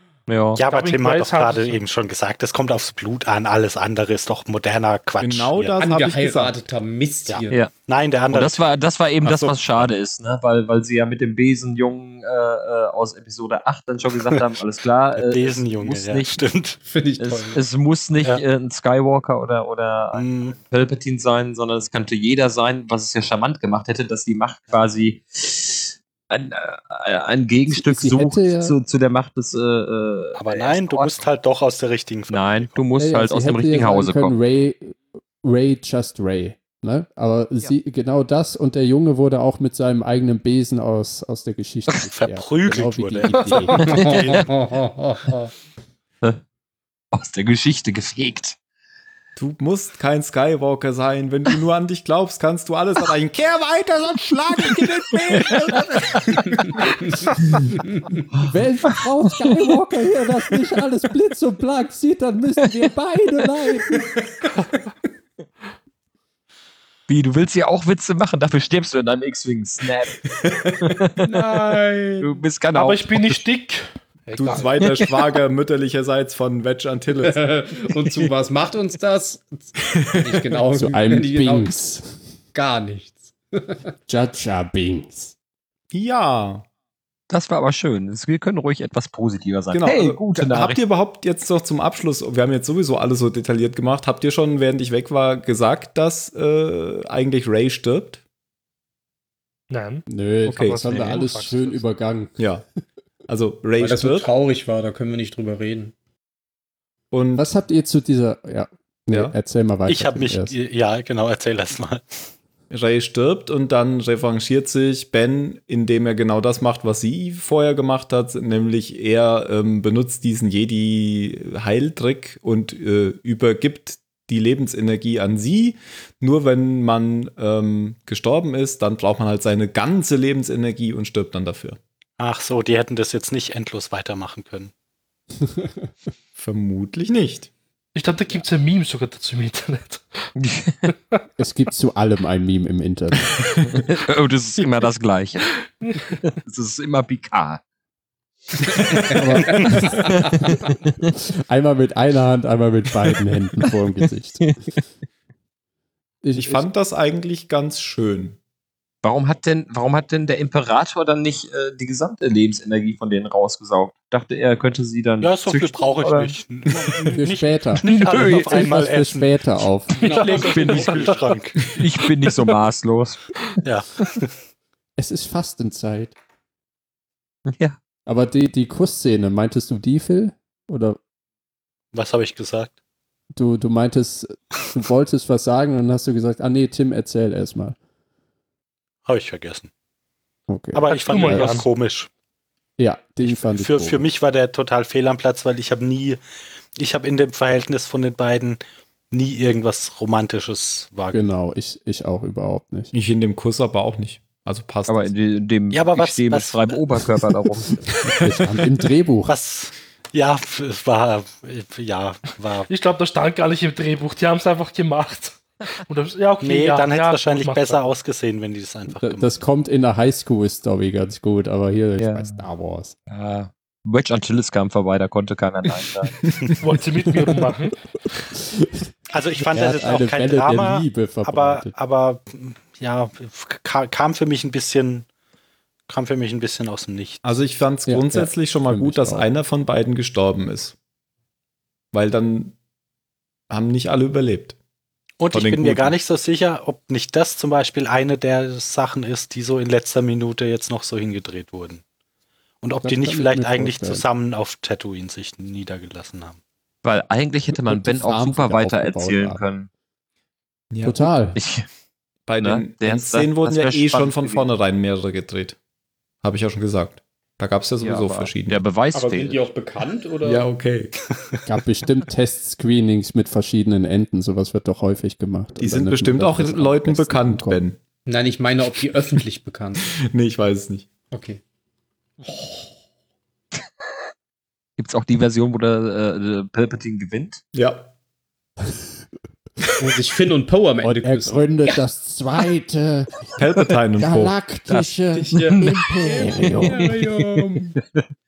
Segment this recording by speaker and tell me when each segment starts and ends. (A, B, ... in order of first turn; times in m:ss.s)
0:00.3-0:00.6 A
0:00.6-0:05.7 B
0:00.7-0:01.8 C
0:05.2-0:06.6 D
0:05.8-0:07.6 E
0:07.3-0:08.6 B
0:08.3-0:16.4 A
0:15.2-0:16.8 B
0:16.8-0:17.6 E
0:17.2-0:31.2 A
0:20.1-0:20.6 B
0:27.7-0:28.8 F
0:30.4-0:32.8 B
0:32.3-0:34.3 A
0:33.0-0:44.0 F
0:42.1-0:43.6 B
0:43.4-0:43.8 C
0:43.8-0:44.5 A
0:43.8-0:45.5 E
0:47.1-0:48.6 A
0:49.4-0:56.2 D
0:57.9-0:58.2 E
0:58.4-1:04.0 F
0:59.4-0:59.7 A
1:07.1-1:10.3 A
1:10.8-1:11.5 A
1:11.2-1:12.4 E
1:12.2-1:13.4 A
1:12.7-1:14.6 C
1:14.4-1:17.4 D
1:17.2-1:21.8 E
1:20.2-1:20.5 D
1:20.7-1:22.2 F
1:22.5-1:23.8 E
1:24.1-1:25.3 F
1:25.9-1:26.6 D
1:27.3-1:30.8 A
1:29.7-1:38.2 D
1:39.7-1:41.8 C
1:40.1-1:42.4 F
1:40.5-1:41.1 D
1:42.4-1:42.6 D
1:43.3-1:44.3 D
1:43.8-1:45.9 E
1:47.1-1:47.4 D
1:47.4-1:50.5 F
1:49.9-1:52.2 B
1:52.7-2:11.8 D
2:12.2-2:14.7 B
2:16.4-2:17.5 D
2:17.9-2:20.2 C
2:20.4-2:20.9 A
2:21.4-2:23.3 F
2:23.9-2:25.5 A
2:25.8-2:26.1 C
2:26.2-2:27.6 A
2:28.7-2:30.5 A
2:29.1-2:30.0 F
2:31.5-2:34.5 F
2:36.2-2:36.7 F
2:36.4-2:38.4 D
2:39.0-2:46.3 A
2:45.2-2:49.4 B
2:47.1-2:50.0 F
2:47.8-2:48.7 A
2:49.9-2:51.8 B
2:50.0-2:51.0 E
2:50.1-2:51.1 C
2:50.3-2:53.4 A
2:53.6-2:54.3 B
2:55.0-2:56.1 F
2:57.5-2:57.8 A
2:58.0-3:01.0 F
3:01.9-3:02.7 B
3:03.3-3:07.8 F
3:09.0-3:09.7 B
3:10.5-3:11.6 F
3:10.7-3:12.1 B
3:10.9-3:11.7 C
3:12.8-3:14.0 F
3:13.2-3:16.2 B
3:16.8-3:18.6 B
3:19.1-3:21.2 B
3:21.1-3:22.9 F
3:22.9-3:25.1 D
3:24.9-3:27.8 A
3:25.7-3:26.8 B
3:28.2-3:29.3 F
3:29.3-3:32.7 B
3:32.7-3:37.9 C
3:36.4-3:39.3 B
3:39.0-3:42.9 F
3:42.0-3:42.4 A
3:43.1-3:43.5 D
3:43.8-3:46.2 A
3:46.6-3:47.8 C
3:48.3-3:48.8 F
3:49.1-3:55.1 B
3:49.5-3:51.7 F
3:55.9-3:57.2 B
3:57.2-4:00.7 D
3:57.9-3:59.3 F
4:01.9-4:02.6 D
4:03.5-4:04.6 D
4:05.2-4:11.8 B
4:05.3-4:05.9 D
4:12.6-4:16.4 B
4:12.8-4:14.0 F
4:16.8-4:19.7 A
4:17.5-4:19.4 F
4:20.7-4:21.1 D
4:20.8-4:21.4 F
4:21.4-4:21.6 A
4:22.3-4:25.6 D
4:22.4-4:24.5 A
4:26.2-4:28.6 D
4:27.8-4:29.4 A
4:28.9-4:30.6 E
4:30.2-4:30.9 D
4:31.4-4:37.6 F
4:35.6-4:37.8 D
4:38.1-4:39.9 E
4:40.0-4:40.9 D
4:41.1-4:41.4 E
4:42.2-4:42.7 E
4:44.8-4:47.4 A
4:47.5-4:47.9 D
4:49.8-4:51.8 E
4:50.8-4:53.2 F
4:53.4-4:54.8 D
4:54.0-4:56.8 F
4:55.1-4:57.7 E
4:55.4-4:58.0 A